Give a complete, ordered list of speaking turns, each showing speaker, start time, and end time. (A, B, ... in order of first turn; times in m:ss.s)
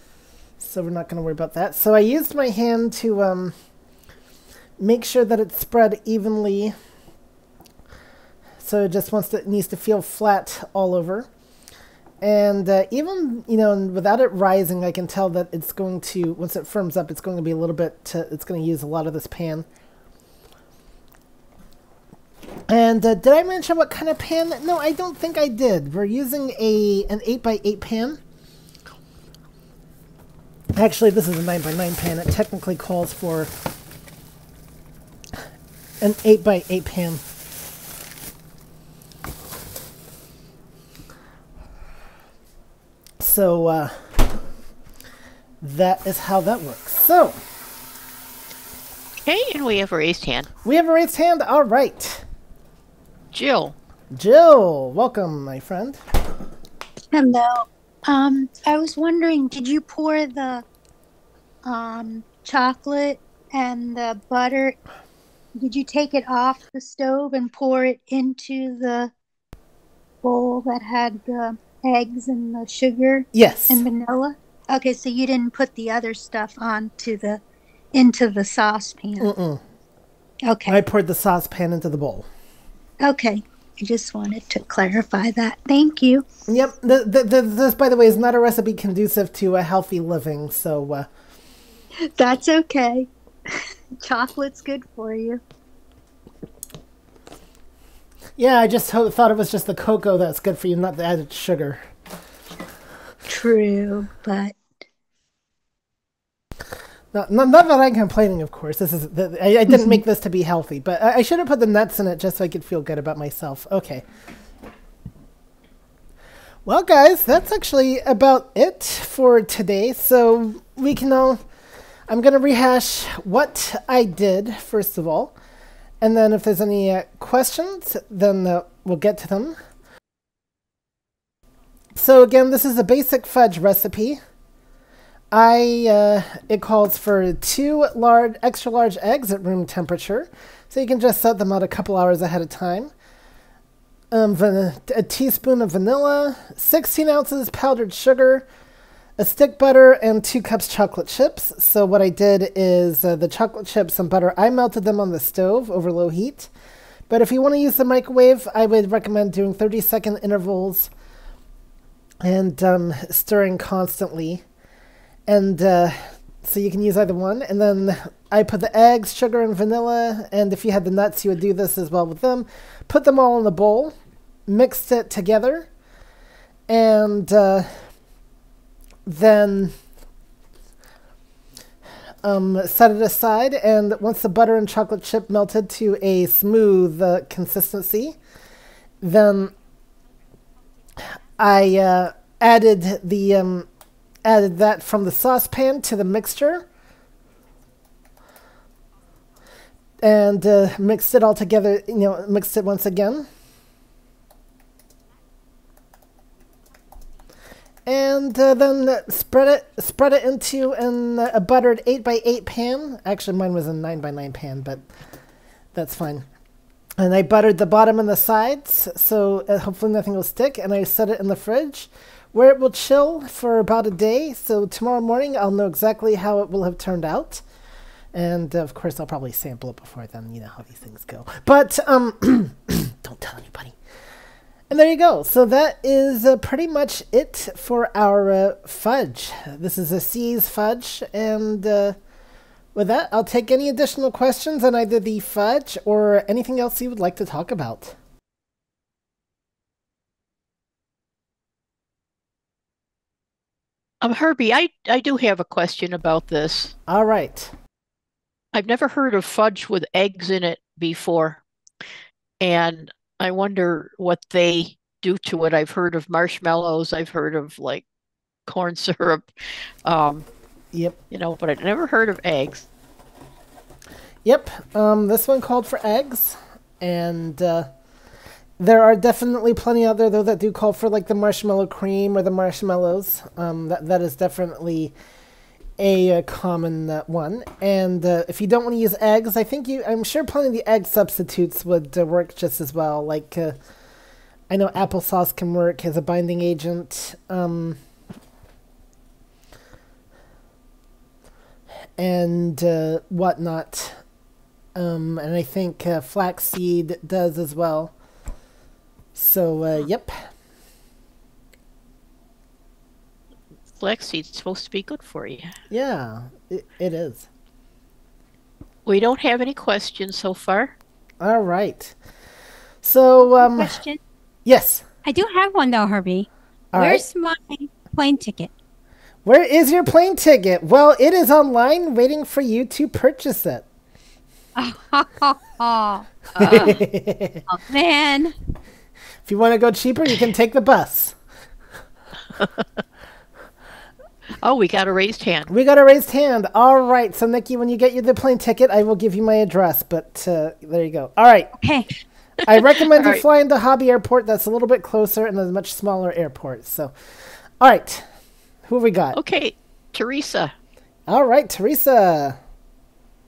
0:00.6-0:03.5 A
0:04.8-0:06.7 A
0:08.6-0:11.3 A
0:12.2-0:19.6 A
0:22.7-0:28.2 A
0:30.8-0:33.5 A
0:36.0-0:37.2 A
0:43.2-0:44.2 A
0:45.6-0:47.4 A
0:49.2-0:50.5 B
0:50.6-0:52.2 A
0:53.3-0:53.8 B
0:54.1-0:56.0 A
0:57.1-1:00.6 C
1:01.6-1:04.8 C
1:05.6-1:09.1 C
1:10.2-1:17.4 C
1:13.3-1:13.8 A
1:17.9-1:19.3 C
1:19.2-1:19.6 A
1:20.4-1:20.8 C
1:20.7-1:22.2 A
1:23.0-1:26.2 C
1:26.5-1:31.1 A
1:32.2-1:33.1 C
1:34.0-1:35.4 C
1:38.4-1:41.8 A
1:43.3-1:44.6 C
1:47.1-1:54.0 A
1:56.6-2:01.4 A
2:02.1-2:05.3 A
2:06.0-2:09.6 A
2:12.0-2:14.2 A
2:15.3-2:22.9 A
2:24.1-2:28.5 A
2:29.2-2:36.5 A
2:37.1-2:40.9 A
2:42.2-2:44.4 A
2:45.3-2:53.9 A
2:54.5-2:55.7 A
2:56.7-2:57.9 A
2:59.0-2:59.7 A
3:02.2-3:08.1 A
3:09.0-3:09.5 A
3:11.4-3:13.7 A
3:14.2-3:16.6 A
3:20.0-3:23.3 A
3:27.8-3:34.9 A
3:35.7-3:36.2 A
3:37.0-3:47.4 A
3:48.1-3:53.8 A
3:54.7-4:02.0 A
4:02.7-4:08.0 A
4:14.0-4:16.7 B
4:16.9-4:17.5 A
4:18.5-4:21.4 B
4:22.4-4:27.8 B
4:28.5-4:29.3 B
4:29.8-4:30.3 B
4:31.1-4:32.7 B
4:34.2-4:37.7 A
4:38.6-4:44.9 A
4:45.8-4:53.6 A
4:54.5-4:57.8 A
5:02.0-5:04.0 A
5:04.7-5:07.9 A
5:09.1-5:10.2 A
5:13.7-5:15.5 B
5:15.7-5:17.3 A
5:18.8-5:20.7 B
5:21.2-5:21.9 A
5:22.8-5:23.8 A
5:23.3-5:24.0 D
5:24.4-5:24.8 A
5:25.0-5:28.5 D
5:26.7-5:27.0 A
5:29.2-5:33.6 A
5:34.6-5:36.8 D
5:36.4-5:37.4 A
5:37.5-5:38.3 D
5:39.2-5:41.1 A
5:44.4-5:45.5 B
5:45.5-5:51.5 A
5:51.6-5:51.9 D
5:52.4-5:56.9 A
5:53.0-5:53.2 B
5:57.6-5:58.0 A
5:58.6-5:59.2 A
5:59.1-6:00.5 B
6:01.1-6:02.4 A